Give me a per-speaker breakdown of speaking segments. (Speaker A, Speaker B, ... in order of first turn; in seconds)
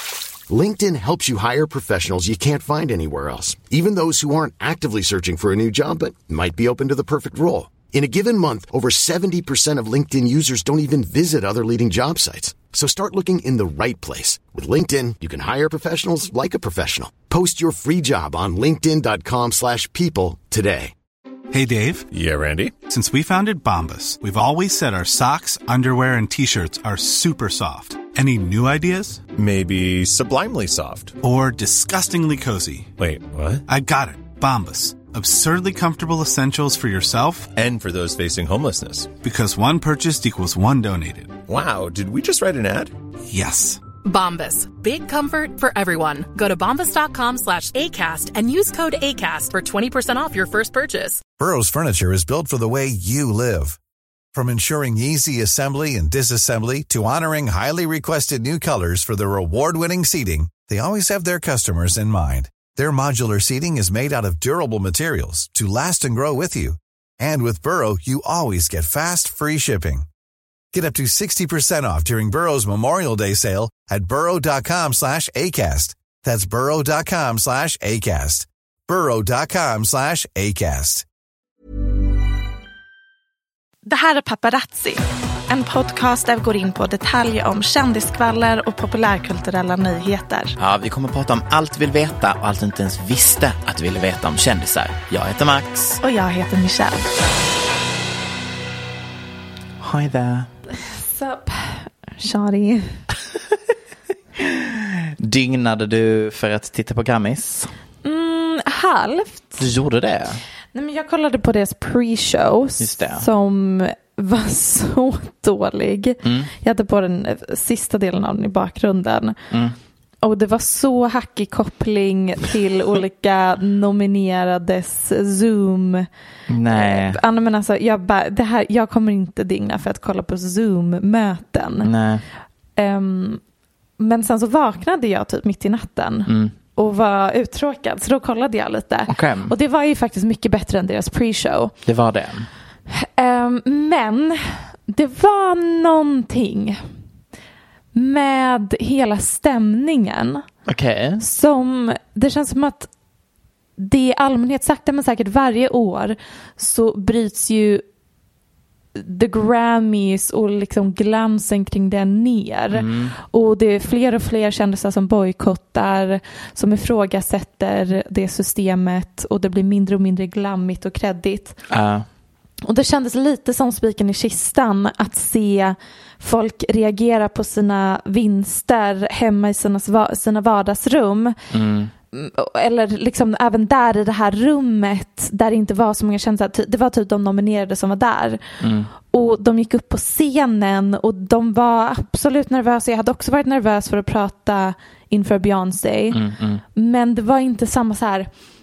Speaker A: 0.5-20.9
Speaker B: 21.5-22.1, 22.8-29.2, 31.2-32.9, 33.7-37.5, 39.2-41.4, 43.3-43.8
Speaker C: 22.1-22.8, 29.4-31.2, 33.0-33.6, 37.5-39.2, 41.5-42.9
Speaker D: 44.0-51.2
Speaker E: 51.4-53.8, 54.3-70.0, 70.7-81.0
Speaker F: 83.8-90.5, 96.0-97.0, 100.8-103.0, 108.0-109.6, 110.7-119.4, 120.2-126.1, 126.7-131.9, 132.8-133.4, 134.0-141.7, 142.9-146.8, 147.9-150.4, 151.2-152.9, 153.8-157.8, 158.9-171.6, 172.6-181.3, 182.1-188.4, 189.1-196.2, 196.8-198.3
Speaker G: 90.6-96.0, 99.8-100.5, 104.4-107.7, 109.6-110.4, 112.8-113.2, 116.2-116.5, 119.5-119.8, 126.5-127.2, 131.8-132.2, 136.3-136.5, 139.1-139.5, 141.8-142.5, 150.7-151.2, 162.7-163.1, 171.7-172.1, 181.5-181.9, 188.6-188.9, 196.1-196.6